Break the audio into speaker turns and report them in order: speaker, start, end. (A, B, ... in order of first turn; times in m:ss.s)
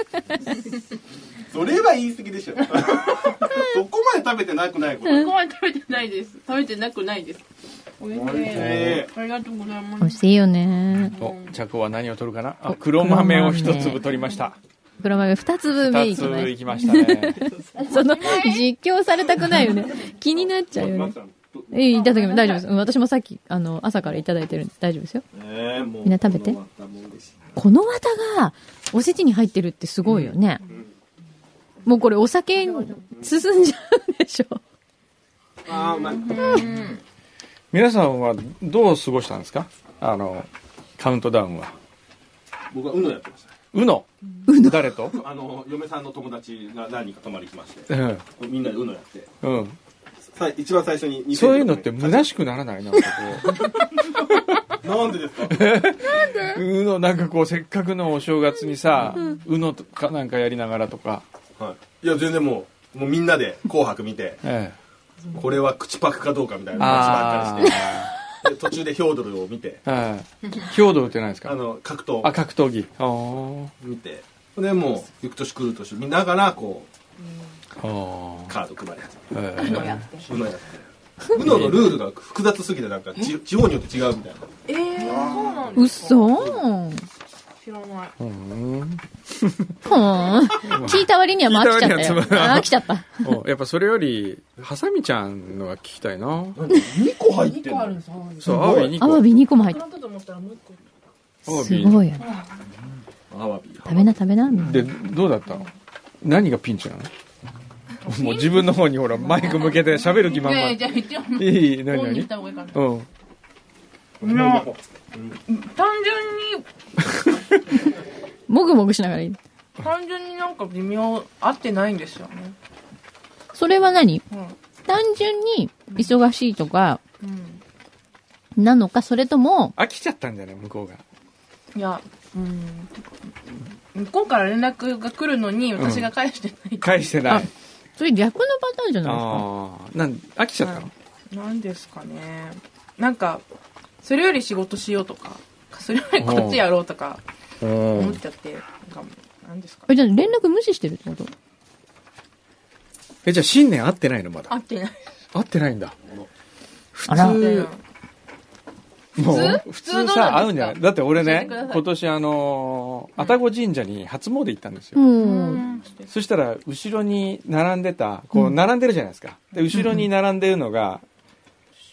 0:01.5-0:05.3 A
0:05.0-0:07.4 B
0:08.0-0:10.3 B
0:08.1-0:09.1 A
0:08.5-0:09.0 C
0:10.0-0:11.2 D
0:11.1-0:11.6 B
0:11.2-0:14.6 C
0:12.7-0:14.0 D
0:15.0-0:21.2 D
0:15.8-0:17.6 C
0:18.0-0:18.6 B
0:20.2-0:22.0 A
0:21.7-0:25.2 D
0:21.9-0:22.6 B
0:25.3-0:27.5 A
0:26.0-0:26.6 D
0:27.6-0:30.6 D
0:30.0-0:30.3 C
0:30.6-0:30.9 A
0:31.8-0:34.6 D
0:32.6-0:33.0 B
0:35.6-0:36.9 A
0:35.7-0:37.0 B
0:37.7-0:41.8 C
0:42.7-0:43.6 A
0:43.7-0:45.2 C
0:44.5-0:44.8 D
0:45.0-0:49.3 A
0:47.9-0:48.2 C
0:49.4-0:49.8 C
0:50.3-0:52.3 A
0:51.3-0:53.7 C
0:54.8-0:55.7 A
0:55.5-1:01.2 C
0:59.1-0:59.4 D
1:01.6-1:04.4 A
1:04.4-1:04.8 C
1:05.3-1:09.8 A
1:06.8-1:08.1 C
1:09.8-1:11.6 C
1:11.4-1:12.3 A
1:12.2-1:13.7 C
1:13.8-1:16.9 A
1:17.8-1:18.5 C
1:18.5-1:19.4 A
1:19.3-1:20.0 C
1:19.6-1:20.3 B
1:20.2-1:24.5 A
1:21.3-1:22.0 C
1:24.7-1:26.5 B
1:25.0-1:25.6 C
1:25.8-1:27.0 D
1:26.3-1:26.6 A
1:27.6-1:28.2 B
1:28.2-1:29.7 C
1:29.8-1:33.4 D
1:30.6-1:36.6 C
1:36.5-1:39.0 A
1:37.3-1:38.8 B
1:38.4-1:39.3 C
1:39.0-1:39.8 D
1:39.5-1:40.8 B
1:41.4-1:42.0 C
1:41.5-1:42.2 D
1:42.2-1:42.5 B
1:43.3-1:44.2 A
1:43.8-1:44.9 D
1:44.6-1:45.7 C
1:46.2-1:47.1 C
1:48.0-1:52.9 B
1:48.0-1:53.1 C
1:54.2-1:55.4 A
1:54.2-1:54.7 B
1:55.5-1:56.6 B
1:57.0-1:57.6 C
1:58.5-1:59.4 D
1:59.8-2:02.6 B
2:03.5-2:04.2 D
2:04.3-2:04.6 B
2:04.8-2:07.0 D
2:07.2-2:07.6 B
2:08.6-2:09.8 D
2:09.8-2:11.0 C
2:11.7-2:13.1 B
2:13.9-2:17.1 B
2:15.8-2:16.1 C
2:16.8-2:17.5 C
2:17.2-2:19.4 D
2:19.0-2:20.9 C
2:20.6-2:23.4 B
2:24.0-2:27.2 B
2:26.2-2:26.7 C
2:27.6-2:28.2 C
2:27.8-2:29.9 B
2:29.9-2:31.3 D
2:33.2-2:34.5 C
2:34.5-2:35.0 B
2:35.3-2:36.0 C
2:36.9-2:37.7 C
2:37.1-2:37.6 D
2:37.1-2:37.8 B
2:39.2-2:45.0 C
2:39.2-2:41.9 B
2:44.9-2:45.6 D
2:45.2-2:46.1 B
2:46.1-2:51.0 C
2:49.7-2:50.0 D